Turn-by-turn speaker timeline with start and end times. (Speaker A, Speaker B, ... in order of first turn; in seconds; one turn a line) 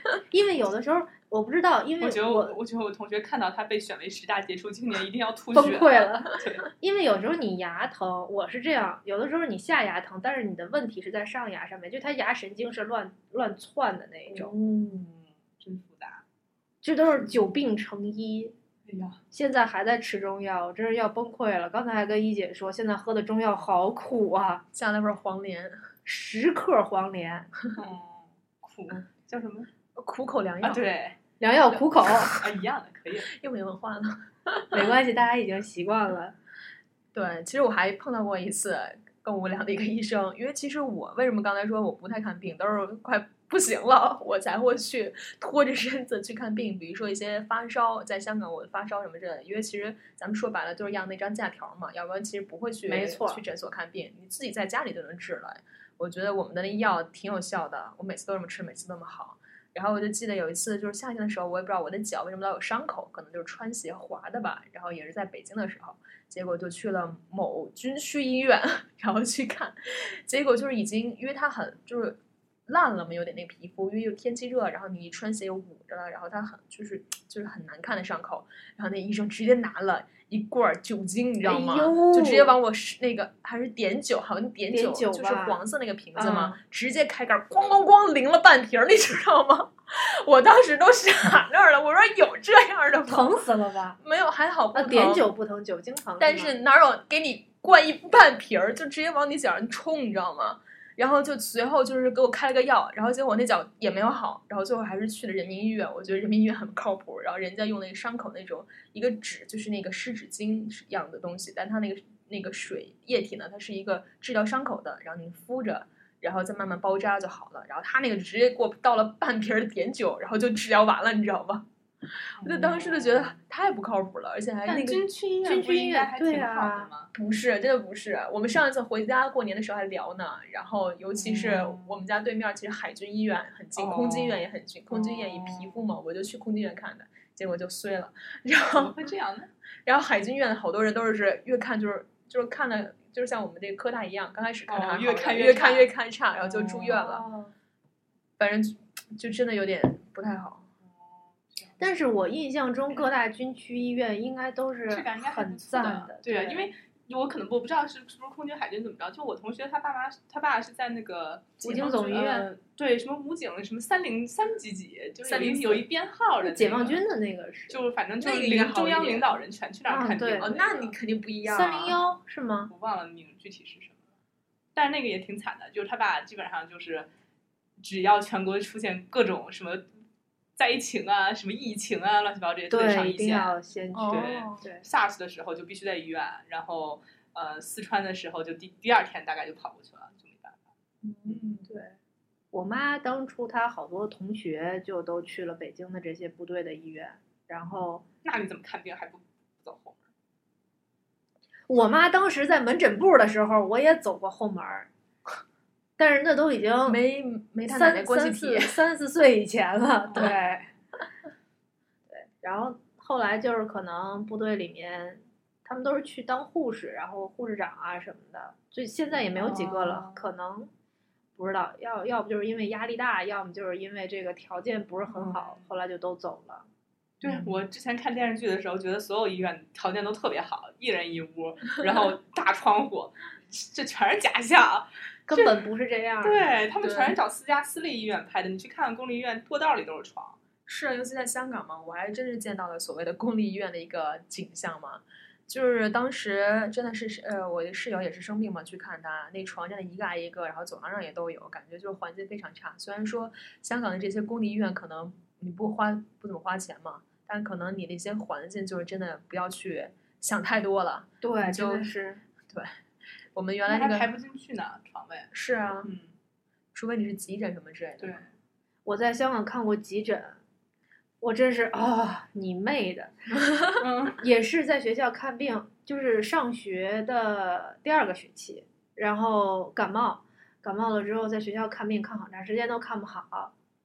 Speaker A: 0.3-2.6
Speaker B: 2.0-6.7
Speaker A: 5.5-14.5
Speaker B: 14.4-16.2
Speaker C: 14.7-15.1
Speaker A: 16.8-18.5
Speaker B: 18.9-19.2
Speaker A: 19.3-24.6
Speaker C: 24.7-25.8
Speaker A: 26.1-27.5
Speaker B: 27.8-29.7
Speaker C: 29.9-30.9
Speaker B: 30.6-31.2
Speaker A: 31.4-32.3
Speaker B: 31.7-33.3
Speaker C: 33.3-34.9
Speaker A: 34.7-36.4
Speaker C: 37.1-93.4
Speaker A: 52.9-53.4
Speaker A: 81.4-82.6
Speaker A: 84.7-85.6
Speaker A: 86.1-86.6
Speaker A: 93.1-94.0
Speaker C: 94.0-95.3
Speaker A: 94.7-96.5
Speaker C: 96.2-121.7
Speaker C: 122.2-125.1
Speaker B: 122.4-123.3
Speaker B: 124.7-127.1
Speaker A: 125.4-126.9
Speaker C: 127.1-138.9
Speaker B: 131.2-131.9
Speaker B: 133.8-135.8
Speaker B: 138.7-139.5
Speaker C: 139.8-147.3
Speaker B: 144.7-147.3
Speaker C: 148.4-150.7
Speaker B: 151.0-151.9
Speaker A: 151.8-156.7
Speaker B: 154.9-167.0
Speaker A: 161.6-162.5
Speaker C: 165.2-165.8
Speaker A: 166.4-167.8
Speaker B: 167.7-170.9
Speaker C: 168.2-169.4
Speaker A: 169.9-170.5
Speaker C: 170.4-172.0
Speaker A: 171.4-172.7
Speaker B: 172.7-174.0
Speaker B: 174.8-177.1
Speaker B: 177.8-179.8
Speaker B: 180.6-183.5
Speaker A: 182.7-184.8
Speaker C: 183.9-184.6
Speaker B: 184.1-190.6
Speaker C: 191.0-191.7
Speaker A: 192.5-198.0
Speaker B: 198.2-200.1
Speaker A: 201.7-204.9
Speaker A: 206.0-207.0
Speaker C: 206.9-208.8
Speaker A: 207.7-210.7
Speaker B: 210.1-210.4
Speaker A: 212.1-220.7
Speaker B: 219.4-220.3
Speaker A: 221.4-226.7
Speaker B: 225.1-225.7
Speaker B: 227.2-235.6
Speaker C: 227.2-227.5
Speaker A: 235.3-236.5
Speaker B: 236.2-240.4
Speaker C: 236.8-237.2
Speaker C: 240.7-261.9
Speaker A: 261.2-262.2
Speaker C: 262.5-262.7
Speaker C: 263.3-264.1
Speaker B: 263.7-265.3
Speaker C: 265.3-265.9
Speaker B: 265.8-266.1
Speaker C: 266.7-268.2
Speaker B: 268.0-268.3
Speaker A: 268.9-270.4
Speaker A: 271.2-273.1
Speaker B: 273.8-274.2
Speaker A: 274.2-283.5